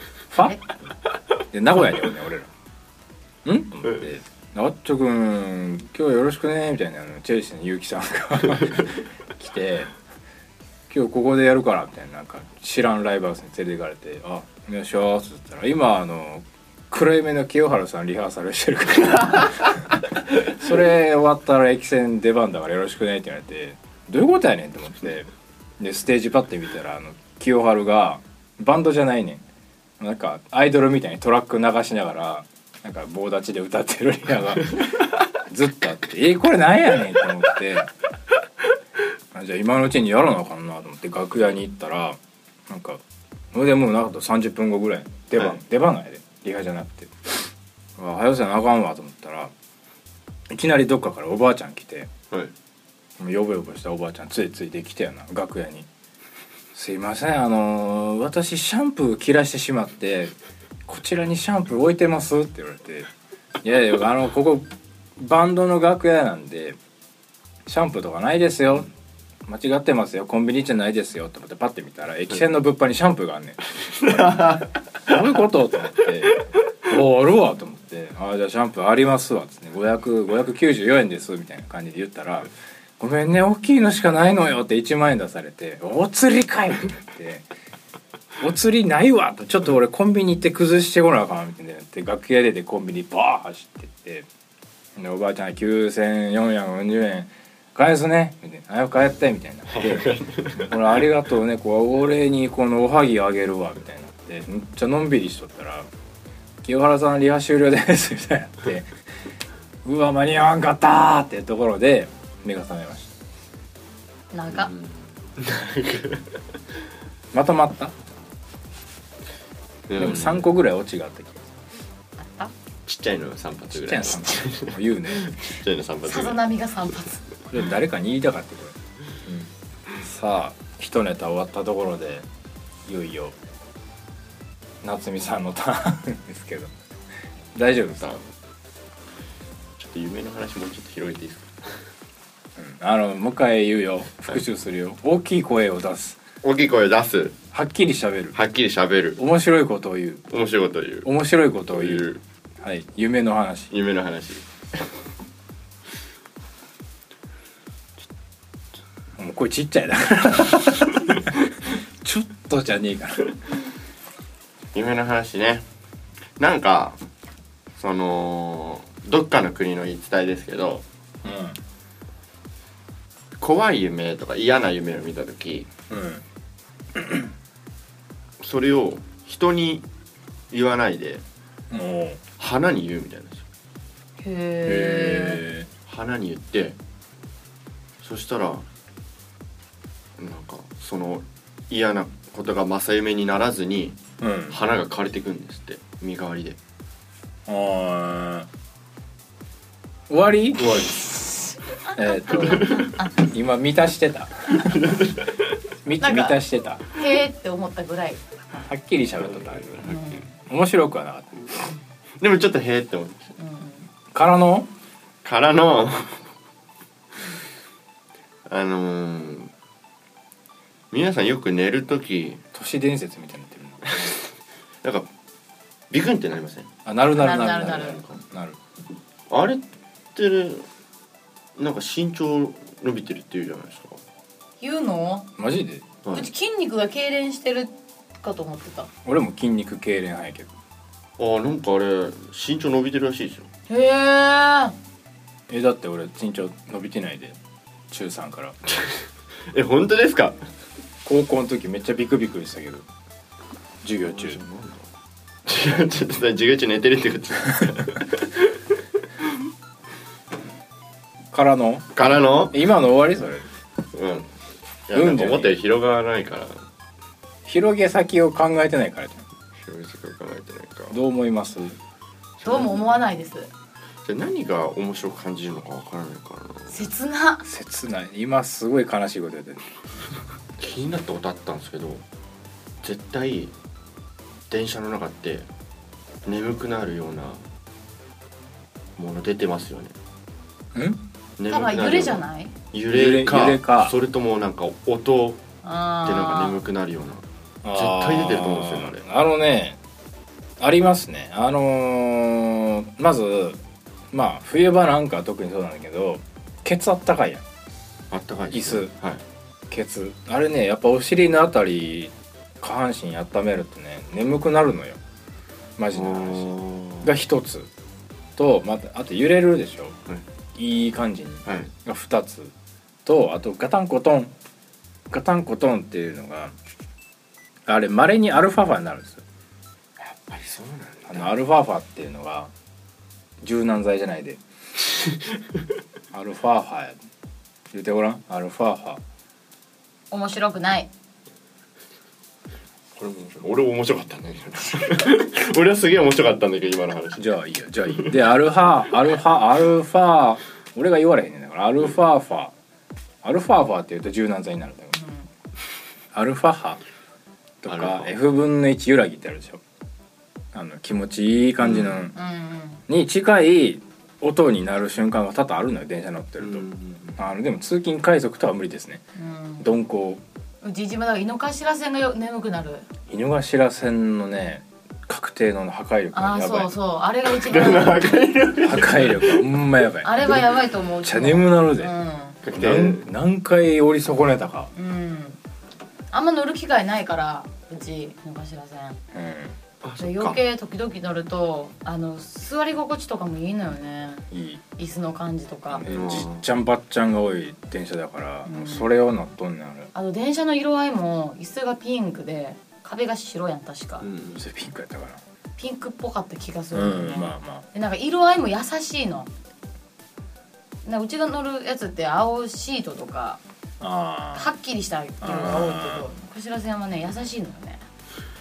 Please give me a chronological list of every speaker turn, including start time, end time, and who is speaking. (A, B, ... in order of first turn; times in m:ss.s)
0:00.3-0:00.6 A
0:01.5-0:02.5 A
0:03.4-0:09.9 A
0:10.9-0:25.3 A
0:25.8-0:29.4 A
0:30.0-0:37.9 A
0:39.3-0:43.0 A
0:43.5-0:47.3 A
0:48.0-0:49.5 A
0:50.5-0:52.1 A
0:53.2-0:55.9 A
0:56.7-1:00.3 A
1:00.9-1:03.1 A
1:03.6-1:06.8 A
1:07.7-1:08.9 A
1:09.5-1:27.5 A
1:14.0-1:15.2 B
1:28.4-1:34.3 A
1:35.0-1:45.9 A
1:39.7-1:40.8 B
1:46.6-1:48.9 A
1:49.8-1:53.2 A
1:54.3-1:54.7 C
1:54.5-1:56.4 B
1:57.3-1:57.9 A
1:59.9-2:00.5 B
2:00.0-2:01.5 A
2:02.2-2:02.5 C
2:02.9-2:06.4 B
2:03.7-2:05.4 A
2:06.1-2:07.2 C
2:07.5-2:09.5 A
2:10.0-2:12.2 A
2:12.9-2:13.4 A
2:14.8-2:16.7 A
2:17.6-2:18.2 A
2:19.8-2:21.8 B
2:22.6-2:26.2 A
2:26.4-2:27.4 B
2:27.5-2:28.4 A
2:28.4-2:29.2 B
2:29.2-2:30.2 A
2:30.3-2:31.1 B
2:31.0-2:32.1 A
2:31.7-2:32.2 B
2:32.6-2:33.7 A
2:33.7-2:34.9 B
2:39.2-2:41.4 A
2:42.0-2:43.4 A
2:44.7-2:45.7 B
2:46.4-2:47.0 B
2:47.8-2:50.8 B
2:51.2-2:51.6 A
2:53.4-2:55.7 B
2:55.9-2:56.2 A
2:57.0-2:57.3 A
2:58.4-2:59.8 B
3:00.5-3:01.2 B
3:01.7-3:02.2 A
3:02.4-3:03.4 B
3:04.2-3:05.4 C
3:04.6-3:05.7 A
3:05.9-3:06.8 B
3:08.0-3:08.7 B
3:10.2-3:14.0 B
3:14.2-3:14.6 A
3:14.5-3:16.6 B
3:17.5-3:18.5 A
3:20.1-3:21.1 A
3:20.6-3:20.9 B
3:21.9-3:23.2 C
3:22.0-3:24.9 A
3:22.4-3:22.9 B
3:24.6-3:25.6 B
3:25.8-3:26.9 A
3:26.0-3:28.4 C
3:28.6-3:29.9 A
3:29.2-3:30.1 B
3:29.8-3:30.3 C
3:30.5-3:31.5 A
3:32.2-3:33.3 B
3:33.4-3:33.9 C
3:34.1-3:34.7 A
3:35.2-3:36.3 B
3:38.5-3:39.5 B
3:40.9-3:42.4 B
3:42.5-3:44.1 A
3:44.8-3:45.1 B
3:45.9-3:46.7 B
3:46.9-3:48.6 A
3:47.2-3:48.0 C
3:49.3-3:49.6 B
3:50.2-3:50.7 B
3:51.6-3:54.0 B
3:54.6-3:55.3 C
3:55.4-3:55.8 A
3:56.0-3:56.3 B
3:56.1-3:58.9 C
3:59.0-4:00.5 A
4:01.2-4:03.5 B
4:03.7-4:04.8 C
4:05.5-4:07.4 A
4:07.9-4:08.6 A
4:09.5-4:10.4 B
4:11.0-4:12.9 A
4:13.8-4:14.4 A
4:14.0-4:14.9 B
4:15.5-4:19.3 B
4:21.3-4:21.9 A
4:22.0-4:22.6 B
4:22.5-4:23.5 A
4:23.9-4:24.3 B
4:24.9-4:26.6 B
4:24.9-4:25.6 A
4:27.5-4:29.3 A
4:29.6-4:31.0 B
4:30.9-4:31.8 A
4:32.4-4:32.8 B
4:32.4-4:33.5 C
4:34.0-4:36.9 B
4:36.7-4:37.4 C
4:37.4-4:39.7 A
4:40.6-4:42.0 B
4:42.8-4:43.5 B
4:44.5-4:45.5 B
4:46.3-4:47.4 B
4:49.0-4:50.0 B
4:50.8-4:51.0 A
4:51.4-4:55.4 B
4:51.5-4:52.5 C
4:52.9-4:54.0 A
4:55.6-4:56.6 C
4:56.0-4:59.0 B
4:57.6-4:59.8 A
5:00.6-5:03.6 A
5:04.1-5:07.4 A
5:08.1-5:09.2 B
5:08.5-5:08.9 A
5:09.7-5:15.0 A
5:15.8-5:17.7 A
5:15.9-5:17.1 B
5:18.4-5:20.0 A
5:20.6-5:22.5 A
5:23.0-5:24.3 A
5:25.1-5:26.5 A
5:27.7-5:29.2 A
5:30.0-5:31.4 B
5:31.1-5:32.5 A
5:33.4-5:34.4 A
5:36.1-5:37.0 A
5:37.7-5:39.0 A
5:40.1-5:40.9 C
5:43.0-5:47.2 B
5:47.2-5:52.5 A
5:53.2-5:55.0 A
5:55.0-5:55.3 C
5:56.1-5:56.8 A
5:57.6-5:59.6 A
5:57.7-5:58.1 B
6:00.5-6:02.2 A
6:01.6-6:02.0 B
6:02.1-6:02.8 C
6:02.9-6:06.6 A
6:06.4-6:07.2 B
6:07.2-6:09.0 A
6:09.2-6:09.7 C
6:09.6-6:10.2 A
6:10.6-6:12.9 C
6:13.1-6:16.7 A
6:16.1-6:18.1 C
6:17.3-6:19.4 B
6:18.6-6:20.4 A
6:20.0-6:22.4 C
6:21.0-6:21.9 A
6:22.4-6:23.1 B
6:22.5-6:24.7 A
6:24.7-6:25.4 C
6:26.1-6:29.0 C
6:29.1-6:29.6 A
6:29.8-6:30.4 B
6:30.0-6:34.3 C
6:34.3-6:34.6 A
6:34.8-6:35.8 C
6:35.7-6:39.9 A
6:35.9-6:36.5 B
6:38.5-6:38.9 C
6:39.9-6:44.1 C
6:44.0-6:44.4 B
6:44.4-6:45.2 A
6:45.6-6:49.3 C
6:46.7-6:47.6 A
6:50.8-6:53.4 C
6:53.8-6:54.5 A
6:54.4-6:57.8 C
6:55.2-6:56.1 A